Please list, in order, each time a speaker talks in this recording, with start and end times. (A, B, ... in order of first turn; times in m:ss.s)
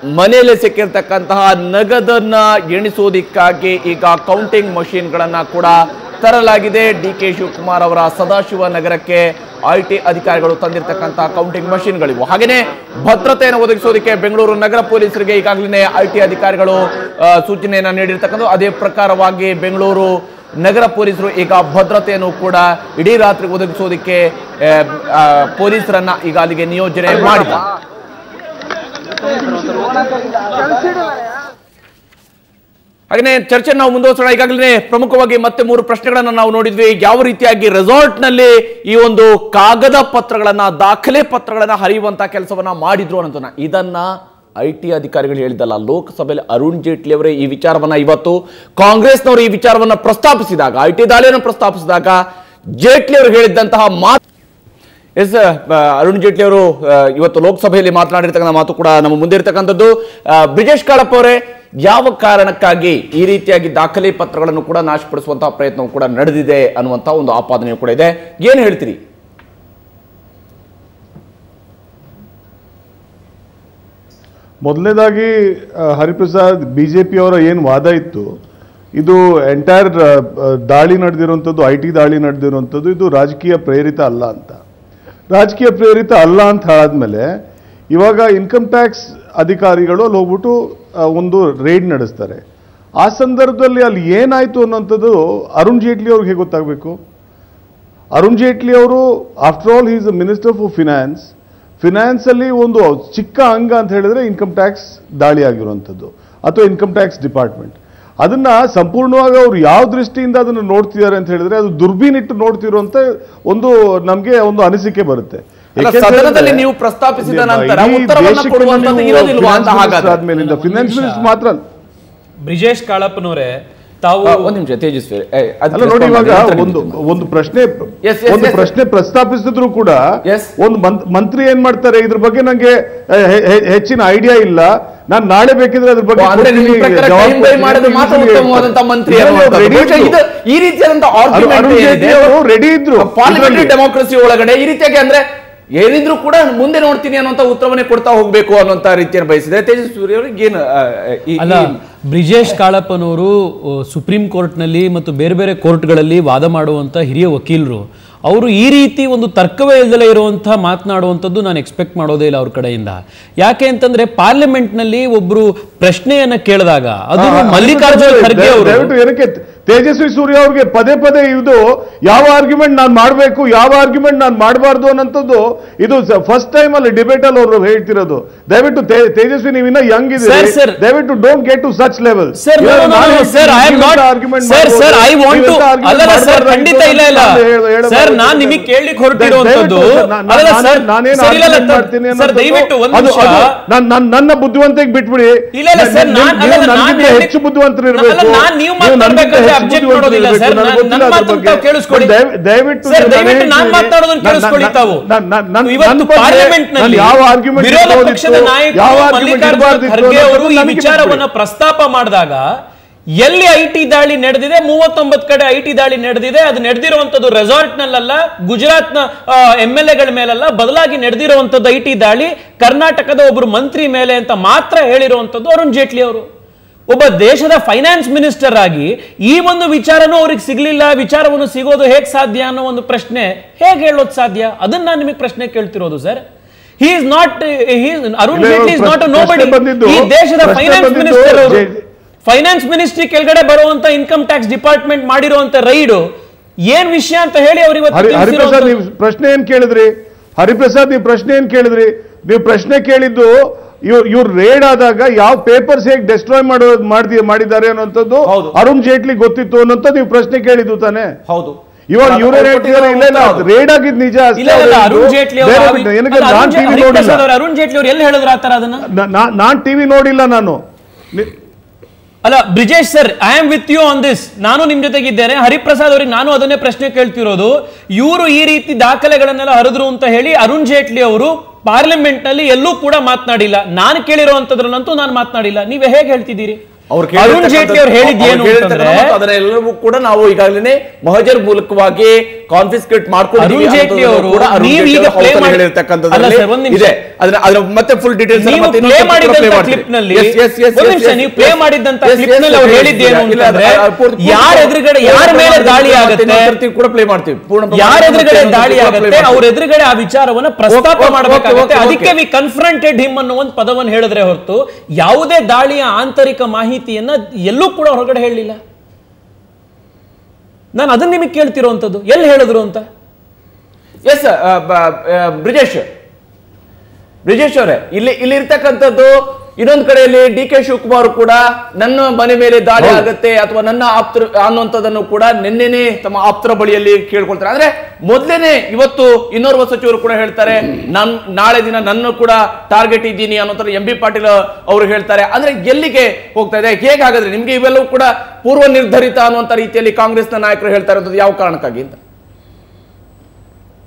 0:00.1-0:27.6 A
0:33.1-0:52.2 A
0:52.8-0:54.2 A
0:55.2-1:09.0 A
1:14.6-1:18.3 B
1:19.0-1:24.6 B
1:25.3-1:27.3 B
1:27.9-1:32.4 B
1:33.0-1:37.0 B
1:38.1-1:56.7 B
1:55.8-2:00.2 A
1:57.2-2:01.6 B
2:00.3-2:01.4 C
2:02.4-2:04.6 C
2:04.2-2:07.0 A
2:05.7-2:10.0 B
2:08.0-2:08.7 A
2:10.2-2:10.5 A
2:10.6-2:20.2 B
2:16.2-2:22.4 A
2:21.3-2:23.7 B
2:23.0-2:25.2 A
2:25.8-2:31.8 A
2:31.4-2:48.9 C
2:47.2-3:31.2 B
3:00.2-3:00.8 C
3:02.3-3:13.6 C
3:15.5-3:17.4 C
3:17.9-3:22.2 C
3:22.8-3:25.1 C
3:25.6-3:32.4 C
3:33.2-3:46.3 C
3:46.9-3:56.2 C
3:56.8-4:01.7 C
3:58.3-4:01.8 B
4:02.2-4:06.0 C
4:06.7-4:08.8 C
4:07.9-4:21.1 B
4:18.2-4:18.6 A
4:21.3-4:23.5 A
4:21.9-4:27.2 B
4:24.4-4:28.9 C
4:29.0-4:30.6 B
4:32.2-4:46.6 C
4:46.9-5:09.4 A
4:47.1-4:49.2 C
4:53.4-4:57.0 C
4:58.3-5:06.6 C
5:07.7-5:18.6 C
5:10.7-5:12.1 A
5:20.7-5:22.9 C
5:24.0-5:25.9 A
5:27.2-5:52.0 A